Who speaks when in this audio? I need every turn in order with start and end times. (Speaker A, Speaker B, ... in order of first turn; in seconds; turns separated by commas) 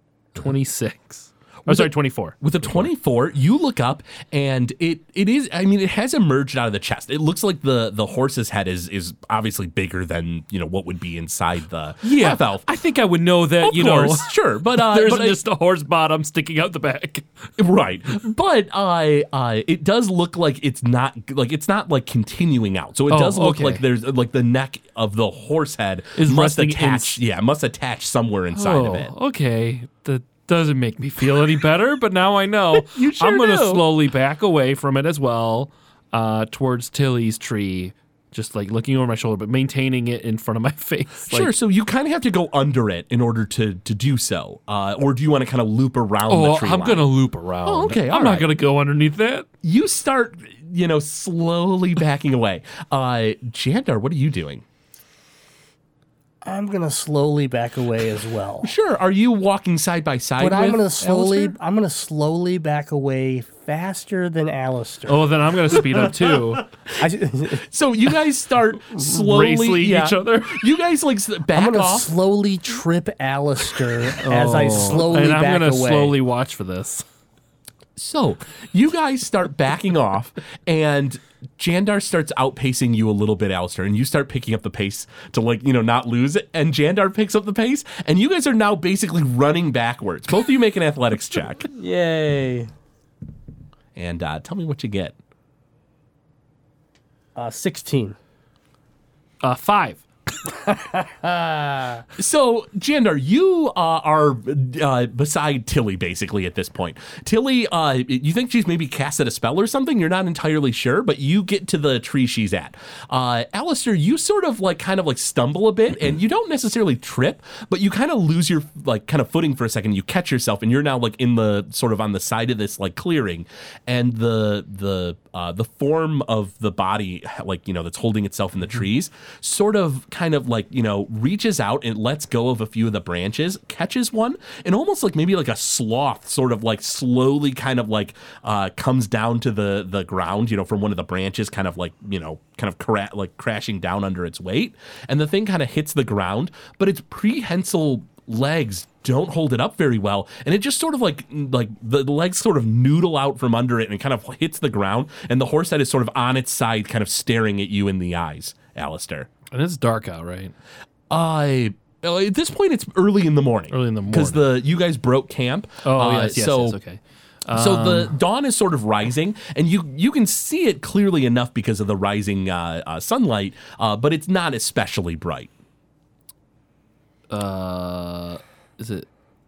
Speaker A: 0.3-2.9, Speaker B: 1.6-12.7, Speaker A: 12.0-17.3, Speaker B: 13.6-15.4, Speaker B: 17.6-29.1, Speaker A: 23.1-23.8, Speaker A: 26.2-27.2, Speaker A: 28.5-41.5, Speaker B: 32.7-33.8, Speaker B: 41.3-47.1, Speaker A: 46.3-49.5, Speaker B: 47.6-48.5, Speaker B: 49.6-54.6, Speaker C: 56.4-58.7, Speaker B: 58.6-61.5, Speaker C: 60.4-65.2, Speaker A: 65.1-66.7, Speaker C: 67.0-67.7, Speaker B: 67.5-72.1, Speaker A: 68.9-70.7, Speaker C: 71.5-76.2, Speaker A: 74.2-77.0, Speaker B: 78.0-91.7, Speaker C: 91.7-92.7, Speaker B: 94.0-95.1, Speaker C: 97.3-98.2, Speaker A: 99.4-100.0, Speaker C: 100.6-102.0, Speaker B: 102.2-159.3, Speaker A: 159.5-160.5, Speaker B: 161.1-166.8, Speaker A: 163.7-164.4, Speaker A: 165.8-168.2, Speaker B: 167.5-175.5, Speaker A: 177.3-179.1